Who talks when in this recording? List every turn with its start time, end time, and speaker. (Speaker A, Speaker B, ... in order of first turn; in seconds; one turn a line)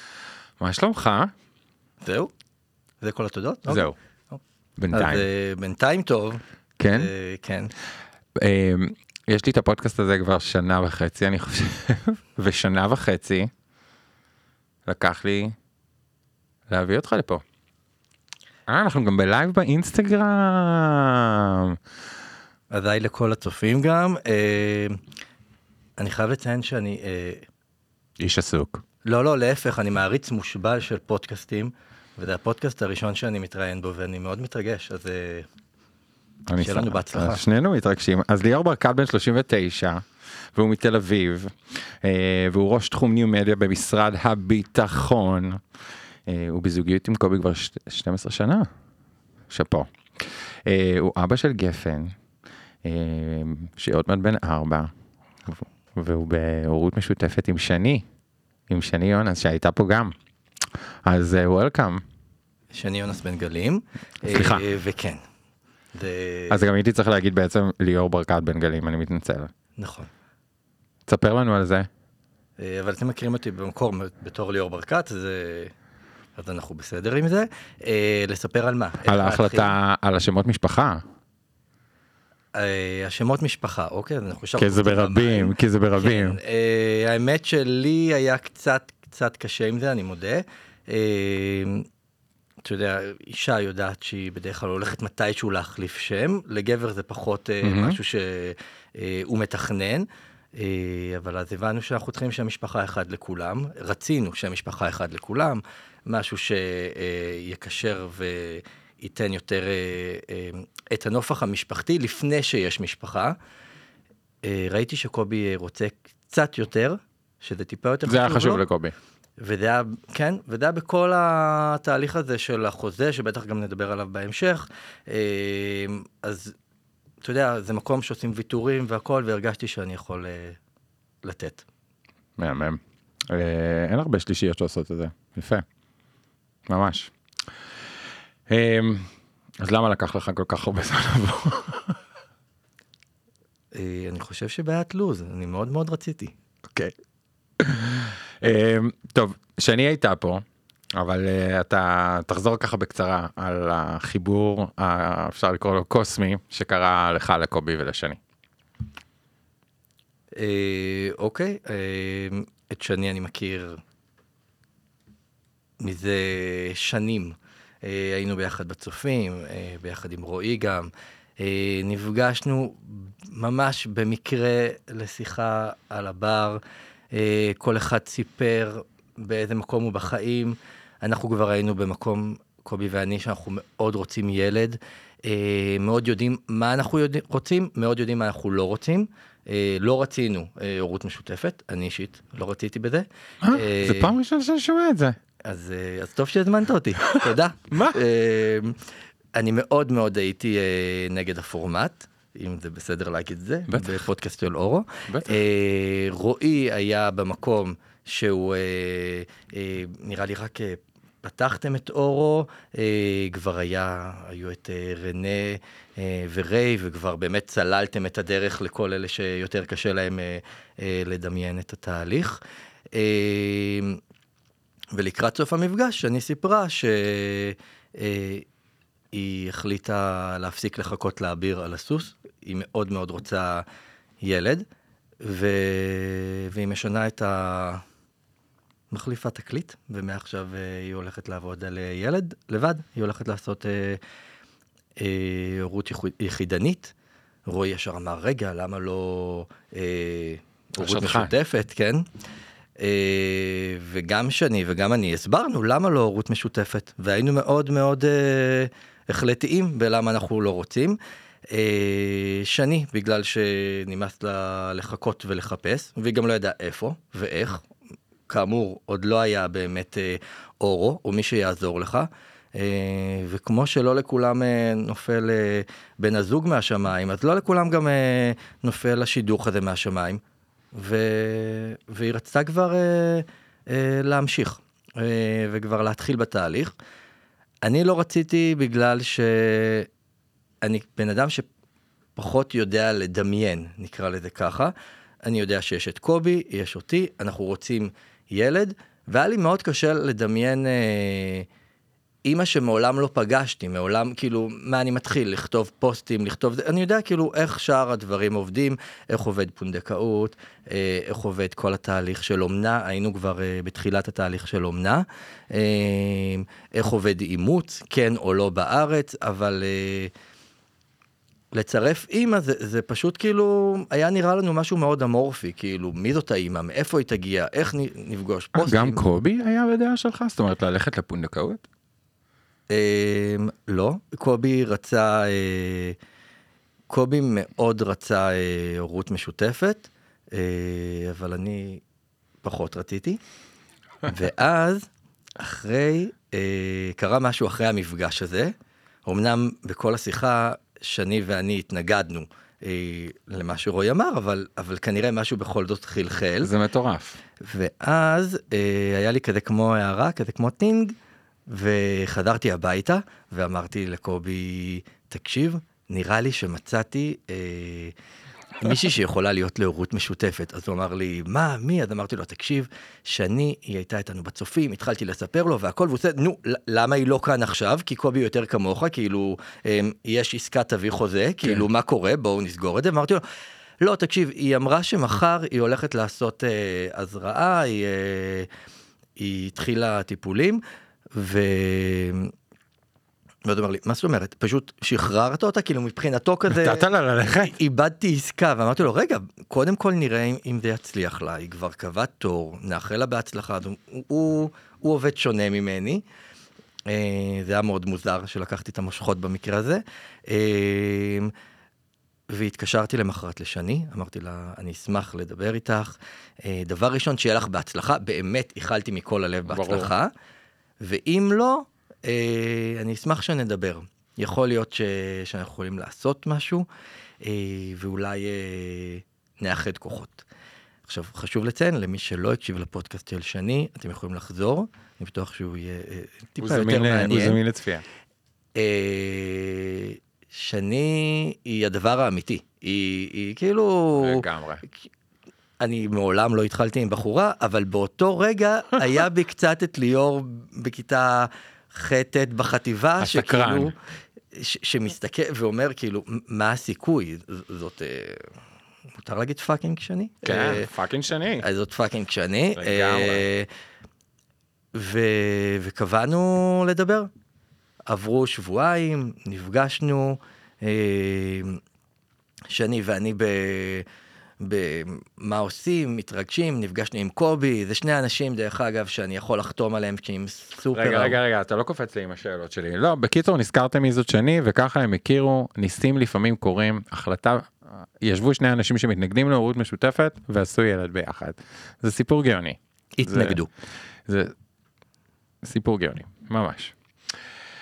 Speaker A: 0.6-1.3
Speaker B: 2.0-2.3
Speaker B: 3.0-4.4
Speaker A: 3.7-3.9
Speaker A: 4.8-5.2
Speaker B: 4.9-7.7
Speaker A: 6.8-7.1
Speaker A: 8.3-13.5
Speaker A: 14.8-15.5
Speaker A: 16.7-17.4
Speaker A: 18.7-21.8
Speaker B: 22.7-25.0
Speaker B: 26.0-27.4
Speaker A: 28.2-28.8
Speaker B: 29.0-35.5
Speaker A: 36.5-45.6
Speaker B: 36.6-37.4
Speaker A: 46.3-48.7
Speaker A: 49.5-52.1
Speaker A: 52.8-54.9
Speaker A: 55.4-58.0
Speaker A: 58.7-60.1
Speaker A: 61.0-62.0
Speaker B: 62.7-65.2
Speaker A: 64.3-64.6
Speaker B: 65.9-66.7
Speaker A: 66.5-69.5
Speaker B: 69.8-70.1
Speaker A: 71.1-71.9
Speaker B: 72.6-75.7
Speaker B: 76.4-79.7
Speaker A: 79.1-81.0
Speaker B: 82.5-91.9
Speaker A: 84.6-86.4
Speaker B: 92.6-113.3
Speaker A: 97.6-98.0
Speaker B: 114.4-118.6
Speaker A: 118.1-118.9
Speaker B: 119.4-126.5
Speaker B: 127.2-130.6
Speaker B: 131.2-131.7
Speaker A: 132.4-135.6
Speaker A: 136.7-137.1
Speaker A: 138.5-142.0
Speaker B: 143.7-146.3
Speaker A: 147.6-150.4
Speaker A: 150.9-158.2
Speaker B: 160.4-163.8
Speaker B: 165.8-176.6
Speaker B: 177.1-194.1
Speaker A: 193.4-195.2
Speaker B: 195.4-198.8
Speaker A: 197.1-198.0
Speaker B: 199.3-222.4
Speaker A: 203.7-204.0
Speaker A: 205.1-205.4
Speaker B: 222.9-224.0
Speaker B: 224.9-228.4
Speaker B: 229.1-233.6
Speaker B: 234.2-234.7
Speaker B: 235.2-237.8
Speaker B: 238.9-244.0
Speaker B: 245.0-246.9
Speaker B: 247.5-252.0
Speaker A: 250.8-251.3
Speaker B: 252.8-261.0
Speaker B: 261.5-267.6
Speaker B: 268.3-280.2
Speaker B: 280.7-286.7
Speaker B: 287.6-289.9
Speaker B: 290.6-291.4
Speaker B: 292.1-294.7
Speaker B: 295.2-301.5
Speaker B: 302.2-320.1
Speaker B: 321.5-329.0
Speaker A: 328.5-331.6
Speaker B: 332.7-336.0
Speaker B: 336.9-341.8
Speaker B: 342.4-343.2
Speaker B: 344.0-348.5
Speaker B: 349.1-356.5
Speaker A: 356.4-357.2
Speaker B: 357.4-360.9
Speaker B: 361.5-367.9
Speaker B: 368.6-383.2
Speaker B: 383.8-388.5
Speaker B: 389.2-390.6
Speaker B: 391.1-392.3
Speaker B: 393.4-406.0
Speaker A: 396.5-397.6
Speaker B: 406.9-411.3
Speaker B: 412.3-420.1
Speaker A: 419.5-419.9
Speaker B: 420.8-426.6
Speaker B: 427.2-430.2
Speaker B: 430.9-437.4
Speaker A: 436.4-437.8
Speaker B: 438.5-444.2
Speaker A: 444.0-444.6
Speaker B: 445.6-453.8
Speaker A: 453.0-453.7
Speaker B: 454.3-458.3
Speaker B: 459.0-460.7
Speaker A: 460.2-461.4
Speaker B: 461.4-463.5
Speaker A: 462.6-463.2
Speaker B: 464.7-467.1
Speaker B: 467.9-471.6
Speaker B: 472.5-473.8
Speaker B: 474.4-481.2
Speaker A: 480.7-493.4
Speaker B: 492.9-493.5
Speaker A: 494.1-494.3
Speaker A: 495.4-497.2